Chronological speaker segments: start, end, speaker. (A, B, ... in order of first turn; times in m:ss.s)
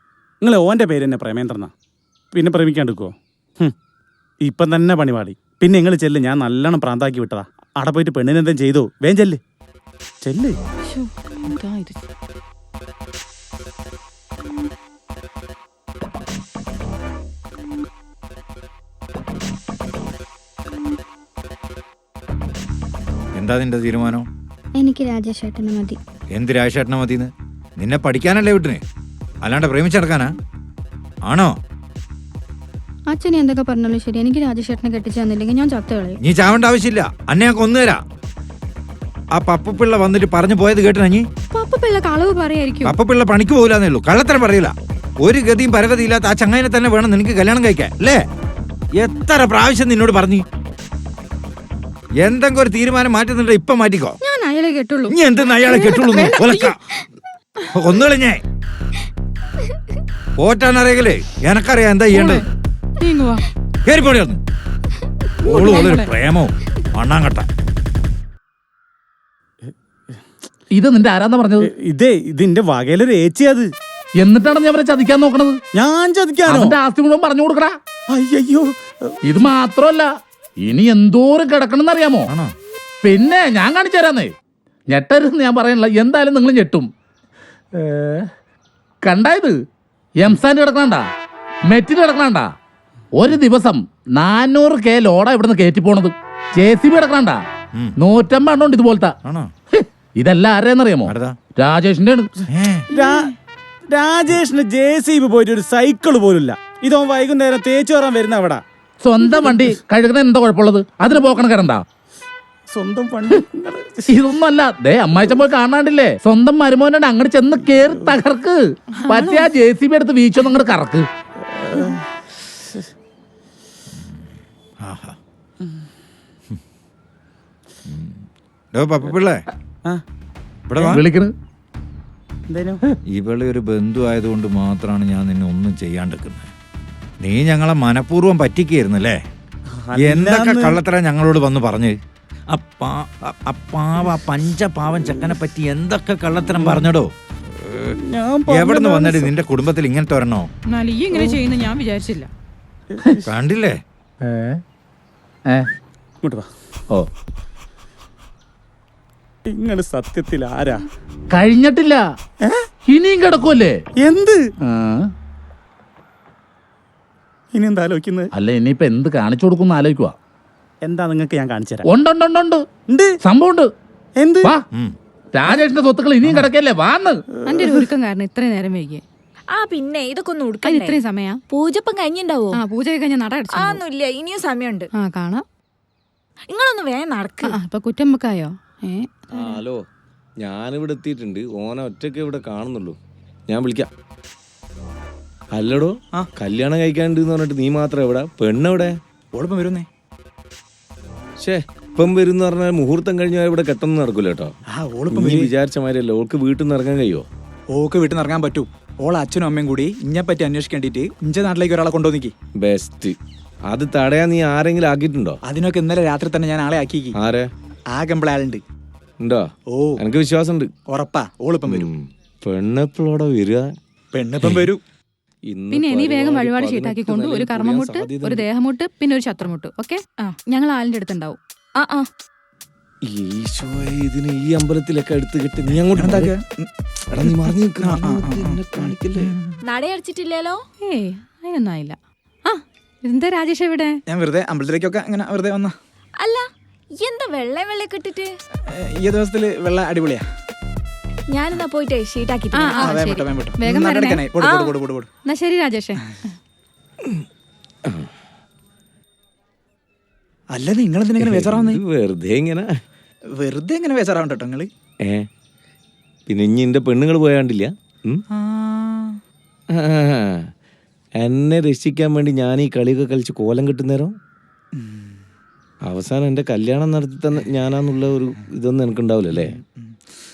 0:00.4-0:01.7 A
0:02.3-0:03.7 A
0:04.4-0:09.4 A
0:10.2-0:10.6 A
0:10.9-0:12.0 B
0:23.4-0:24.3 C
0:24.8-0:26.0 D
0:26.3-0:28.8 C
0:29.4-0:30.3 C
0:31.2-0:31.6 C
0:33.1-0:36.2 D
0:36.2-0:38.0 C
0:39.4-0:41.3 C
0:41.5-0:43.0 B
0:42.8-0:48.2 C
0:48.9-0:50.4 C
0:52.2-0:54.2 C
0:54.2-0:55.2 B
0:55.1-0:56.8 C
0:55.7-0:56.8 B
0:57.7-0:58.4 C
1:00.4-1:02.4 C
1:02.1-1:02.5 B
1:03.0-1:03.4 B
1:03.8-1:04.4 C
1:05.4-1:07.5 C
1:05.5-1:06.1 B
1:10.7-1:11.7 E
1:11.6-1:13.7 A
1:14.2-1:15.6 E
1:15.8-1:16.7 A
1:16.5-1:17.8 E
1:18.1-1:18.7 A
1:19.3-1:20.1 E
1:20.6-1:22.3 E
1:22.3-1:22.6 C
1:23.0-1:24.3 E
1:24.9-1:26.9 E
1:27.8-1:28.3 E
1:29.0-1:29.6 E
1:30.2-1:31.1 E
1:31.7-1:32.5 E
1:33.2-1:37.4 E
1:38.0-1:39.2 E
1:39.2-1:39.5 C
1:39.7-1:42.3 E
1:41.0-1:41.4 C
1:42.5-1:42.9 C
1:42.9-1:43.3 A
1:43.9-1:48.6 A
1:49.0-1:51.8 E
1:52.7-1:54.1 A
1:54.1-2:01.1 E
2:01.6-2:02.0 A
2:04.8-2:05.2 C
2:07.9-2:08.2 C
2:08.7-2:09.4 C
2:10.7-2:11.0 C
2:10.8-2:11.3 E
2:12.5-2:12.8 A
2:13.1-2:16.5 C
2:17.2-2:19.2 C
2:19.8-2:20.8 A
2:20.0-2:22.0 C
2:22.5-2:28.0 C
2:28.1-2:29.3 A
2:28.5-2:30.5 C
2:30.7-2:32.3 B
2:32.9-2:33.2 A
2:33.3-2:33.8 C
2:34.2-2:34.6 E
2:39.5-2:40.8 A
2:41.3-2:42.0 E
2:42.9-2:43.8 E
2:44.0-2:44.4 A
2:44.7-2:45.1 E
2:47.5-2:48.3 A
2:48.3-2:50.2 E
2:50.8-2:51.9 A
2:51.9-2:52.6 E
2:53.2-2:53.7 E
2:54.2-2:54.5 A
2:55.3-2:57.2 E
2:57.5-2:59.0 B
2:57.6-2:57.8 A
2:59.5-3:01.0 F
3:00.6-3:01.4 B
3:01.5-3:02.6 F
3:02.5-3:03.8 B
3:03.5-3:04.9 F
3:05.0-3:05.4 B
3:06.5-3:07.6 F
3:07.4-3:09.6 B
3:09.4-3:09.8 G
3:10.4-3:13.0 G
3:13.5-3:13.9 G
3:15.6-3:19.0 G
3:19.3-3:19.9 H
3:21.4-3:24.5 G
3:24.7-3:25.6 H
3:25.2-3:27.3 G
3:27.7-3:32.4 H
3:32.6-3:33.2 G
3:33.7-3:35.4 G
3:35.4-3:37.2 H
3:37.9-3:38.6 H
3:39.7-3:40.1 H
3:40.1-3:40.7 G
3:40.9-3:41.9 H
3:42.4-3:43.6 G
3:44.1-3:44.8 H
3:45.5-3:48.4 G
3:45.7-3:51.4 B
3:51.8-3:52.1 F
3:53.1-3:56.0 G
3:55.6-3:59.6 H
3:59.7-4:00.6 F
4:00.8-4:04.0 B
4:04.1-4:05.8 H
4:06.2-4:06.4 F
4:07.0-4:08.3 F
4:08.7-4:10.3 H
4:11.3-4:13.0 F
4:12.5-4:14.3 B
4:12.7-4:15.1 H
4:14.4-4:14.7 F
4:15.3-4:16.0 B
4:20.5-4:21.8 H
4:21.3-4:22.7 G
4:23.3-4:24.7 H
4:26.3-4:28.2 G
4:28.3-4:29.2 H
4:29.8-4:30.5 G
4:31.2-4:34.2 G
4:34.7-4:35.2 H
4:35.9-4:39.3 G
4:39.3-4:40.0 H